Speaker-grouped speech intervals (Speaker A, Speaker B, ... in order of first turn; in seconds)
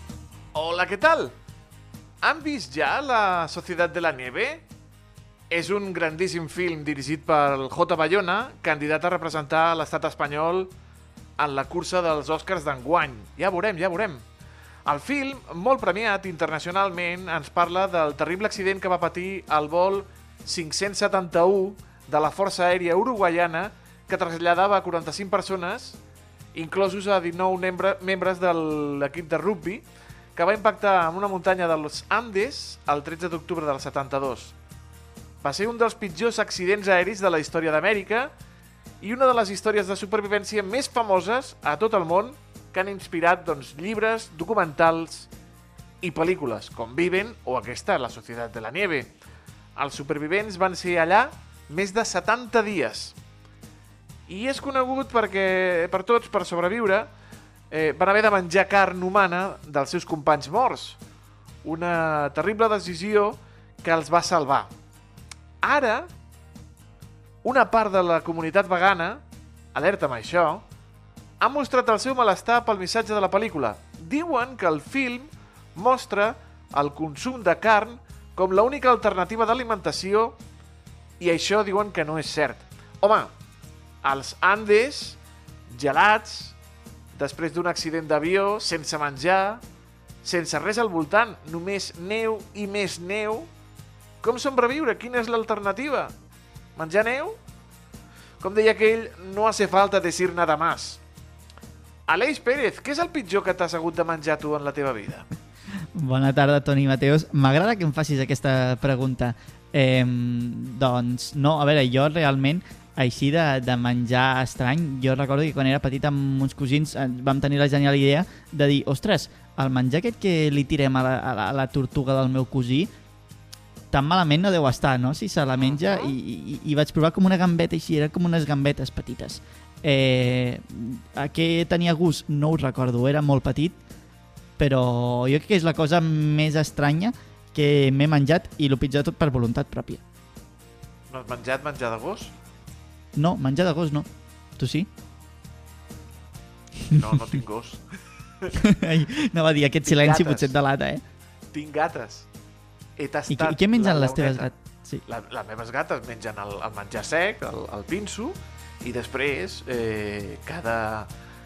Speaker A: 0.5-1.3, 2.2-4.6, 5.5-10.7, 11.4-14.2, 14.8-26.0, 26.5-34.5, 35.4-38.3, 39.0-45.3, 46.0-49.1, 49.8-53.1, 54.3-57.1, 57.7-61.0, 61.6-64.7, 65.6-66.1, 67.4-69.2, 69.7-70.6, 71.4-80.4, 81.2-83.3, 84.0-86.5, 87.1-89.6, 90.2-93.5, 94.2-96.1, 96.8-97.4, 98.4-101.0, 102.1-105.3, 125.6-125.8, 141.1-142.3, 146.9-147.8, 149.8-150.6, 151.5-152.3, 153.0-154.5, 155.1-161.1
Speaker B: 105.9-122.9, 123.9-133.8, 134.6-140.0, 143.1-144.9, 148.6-151.0, 153.3-155.0